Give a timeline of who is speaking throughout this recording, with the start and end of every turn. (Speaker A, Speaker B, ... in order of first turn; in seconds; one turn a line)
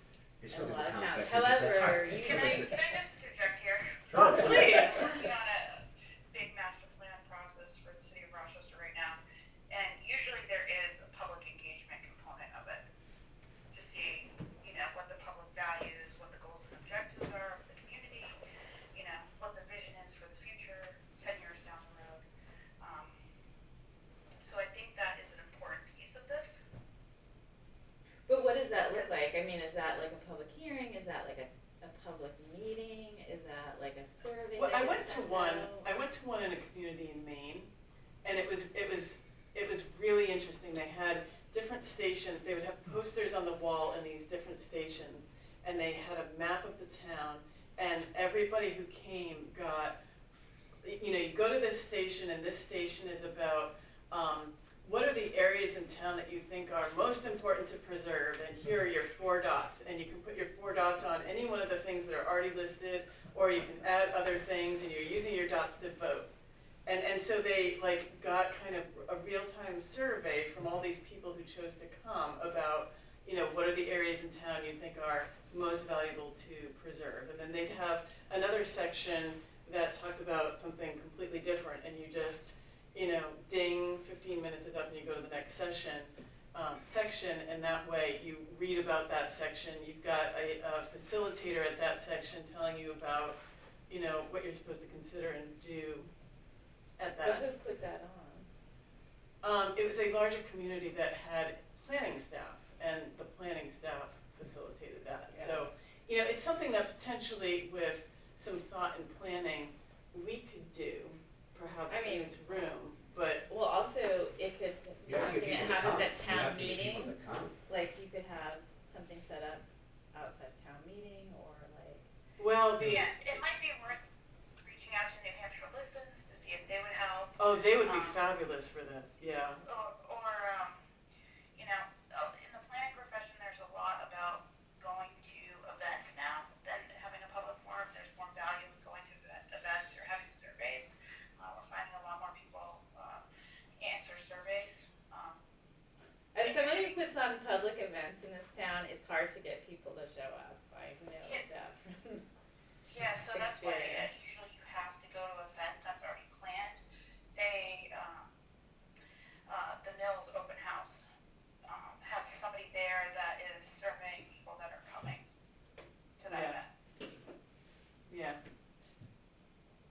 Speaker A: 0.4-2.8
Speaker B: 0.5-3.0
Speaker C: 2.2-9.2
Speaker A: 4.1-4.9
Speaker D: 4.1-5.3
Speaker C: 9.7-12.8
Speaker C: 13.7-18.4
Speaker C: 18.9-22.2
Speaker C: 22.8-23.3
Speaker C: 24.4-26.6
Speaker B: 28.3-35.9
Speaker D: 34.5-37.7
Speaker D: 38.2-50.0
Speaker D: 50.8-66.3
Speaker D: 66.9-93.4
Speaker D: 93.9-96.1
Speaker D: 97.0-97.5
Speaker B: 97.2-98.5
Speaker D: 99.4-113.5
Speaker B: 105.3-105.7
Speaker B: 111.9-112.4
Speaker B: 113.5-117.2
Speaker A: 115.1-117.6
Speaker B: 117.7-122.1
Speaker D: 122.4-123.4
Speaker C: 122.8-124.0
Speaker C: 124.6-128.2
Speaker D: 127.4-129.6
Speaker C: 129.7-130.8
Speaker C: 131.6-143.2
Speaker C: 143.8-145.4
Speaker B: 146.3-152.2
Speaker C: 146.4-146.9
Speaker C: 152.9-158.3
Speaker B: 153.3-154.1
Speaker C: 159.5-161.0
Speaker C: 161.7-165.2
Speaker C: 166.2-166.7
Speaker D: 166.3-166.6
Speaker D: 168.1-168.4